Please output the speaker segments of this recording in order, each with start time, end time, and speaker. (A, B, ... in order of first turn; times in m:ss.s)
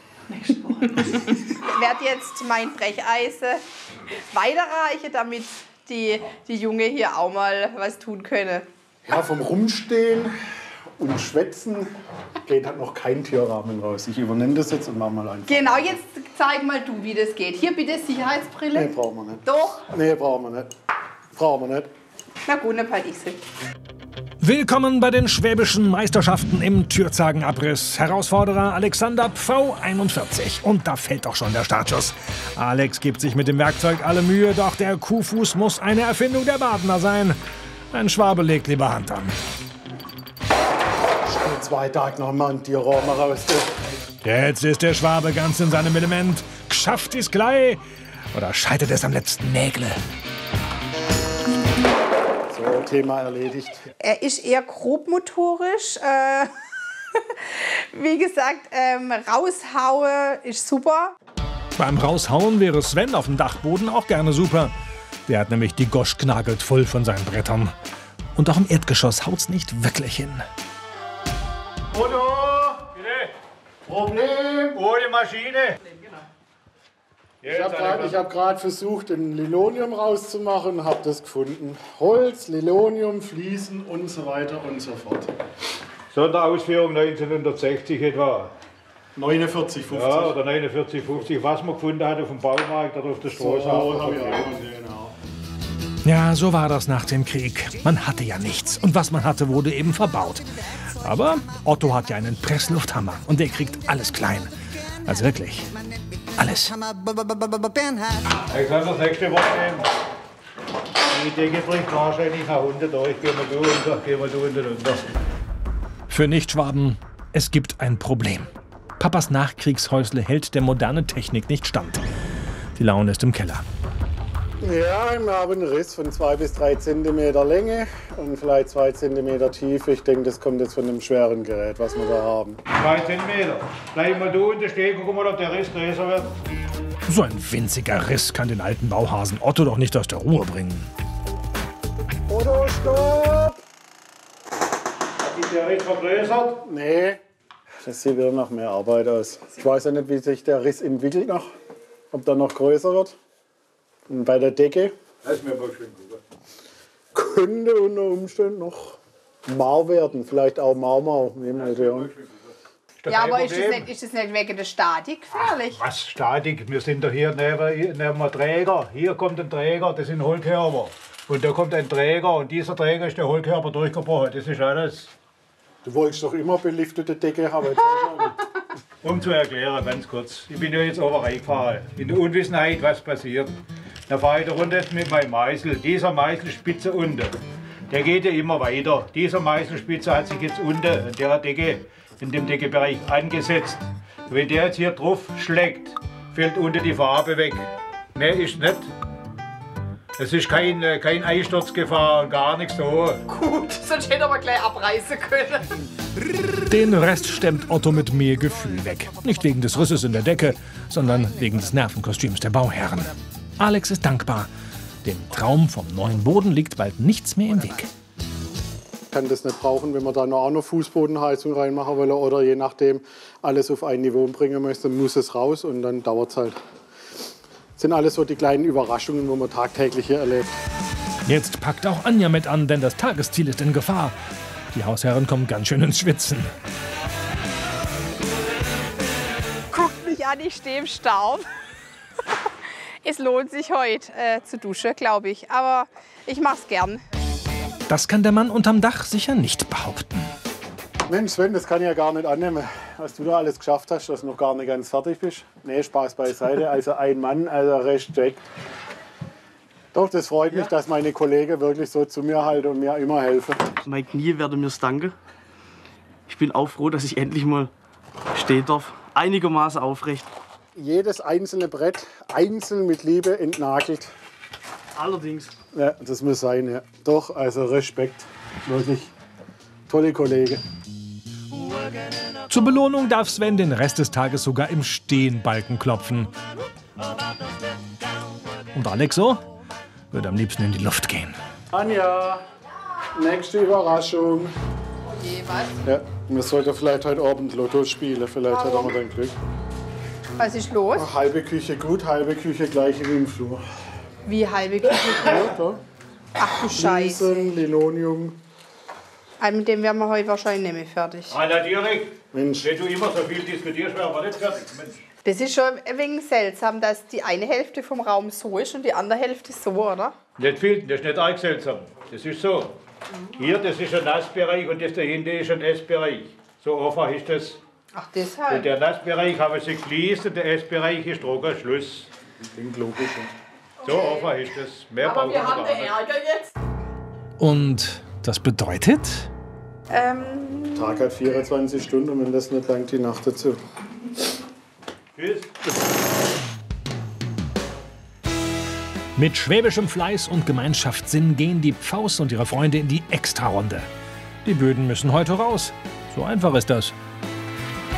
0:00.9-0:03.6 A
0:04.3-0:08.7 A
0:09.0-0:10.3 B
0:11.0-0:11.9 B
0:12.4-0:16.0 B
0:15.5-0:18.9 A
0:18.7-0:20.7 B
0:19.4-0:19.8 A
0:21.3-0:21.9 B
0:22.4-0:23.4 A
0:24.4-0:37.4 C
0:37.9-0:39.4 C
0:41.2-0:43.7 B
0:44.2-0:47.8 C
0:48.3-0:50.0 C
0:52.5-0:53.8 B
0:54.0-0:56.5 A
0:57.2-1:01.1 A
1:01.8-1:04.7 C
1:05.3-1:07.7 C
1:08.3-1:10.4 C
1:12.0-1:12.5 B
1:12.0-1:13.3 D
1:13.8-1:14.8 B
1:14.7-1:16.0 D
1:17.4-1:18.2 D
1:17.4-1:25.3 B
1:26.1-1:28.5 D
1:29.1-1:30.3 B
1:29.9-1:34.5 D
1:33.4-1:35.1 B
1:36.0-1:40.4 C
1:41.0-1:44.5 C
1:45.0-1:45.7 C
1:46.4-1:46.8 C
1:48.5-1:49.9 D
1:51.0-1:55.0 D
1:56.1-2:02.0 C
2:02.7-2:03.6 C
2:04.6-2:12.6 B
2:12.7-2:16.3 D
2:17.1-2:20.9 C
2:22.3-2:23.6 B
2:25.2-2:26.6 D
2:26.6-2:27.2 B
2:27.8-2:31.5 B
2:32.1-2:33.2 B
2:34.1-2:34.9 B
2:35.2-2:36.2 D
2:37.1-2:42.1 B
2:43.0-2:43.8 D
2:43.1-2:45.8 A
2:45.7-2:55.1 D
2:55.8-2:58.5 B
2:59.0-3:03.5 D
3:04.1-3:07.3 D
3:07.9-3:18.9 D
3:20.2-3:23.2 D
3:23.3-3:25.9 A
3:26.6-3:34.5 C
3:35.0-3:37.9 C
3:39.1-3:46.6 B
3:47.8-3:50.5 B
3:51.2-3:54.2 C
3:54.7-3:56.5 C
3:59.7-4:01.4 A
4:03.0-4:07.0 A
4:07.9-4:10.3 C
4:11.1-4:18.5 B
4:19.9-4:23.7 B
4:23.8-4:25.2 E
4:26.3-4:27.7 E
4:28.3-4:30.3 E
4:30.8-4:34.1 B
4:35.0-4:35.5 E
4:35.7-4:39.1 B
4:39.9-4:40.6 B
4:42.5-4:46.3 C
4:48.7-4:49.4 C
4:50.1-4:51.4 C
4:51.7-4:52.4 B
4:53.2-4:54.5 B
4:55.0-4:55.8 A
4:55.8-4:59.3 B
4:58.5-4:58.9 A
5:00.4-5:01.1 A
5:01.0-5:03.6 B
5:04.2-5:05.5 A
5:05.2-5:05.8 B
5:06.4-5:07.5 A
5:06.6-5:08.4 B
5:09.4-5:11.4 A
5:11.3-5:15.0 D
5:12.3-5:12.7 B
5:15.2-5:20.1 A
5:20.4-5:22.7 D
5:23.3-5:27.6 D
5:27.9-5:28.7 A
5:28.5-5:32.1 D
5:32.4-5:33.3 B
5:33.8-5:34.3 A
5:33.8-5:35.9 D
5:35.0-5:36.5 A
5:37.4-5:39.3 C
5:39.9-5:40.9 A
5:40.7-5:43.6 B
5:45.1-5:45.5 D
5:49.2-5:53.8 C
5:54.4-5:57.0 C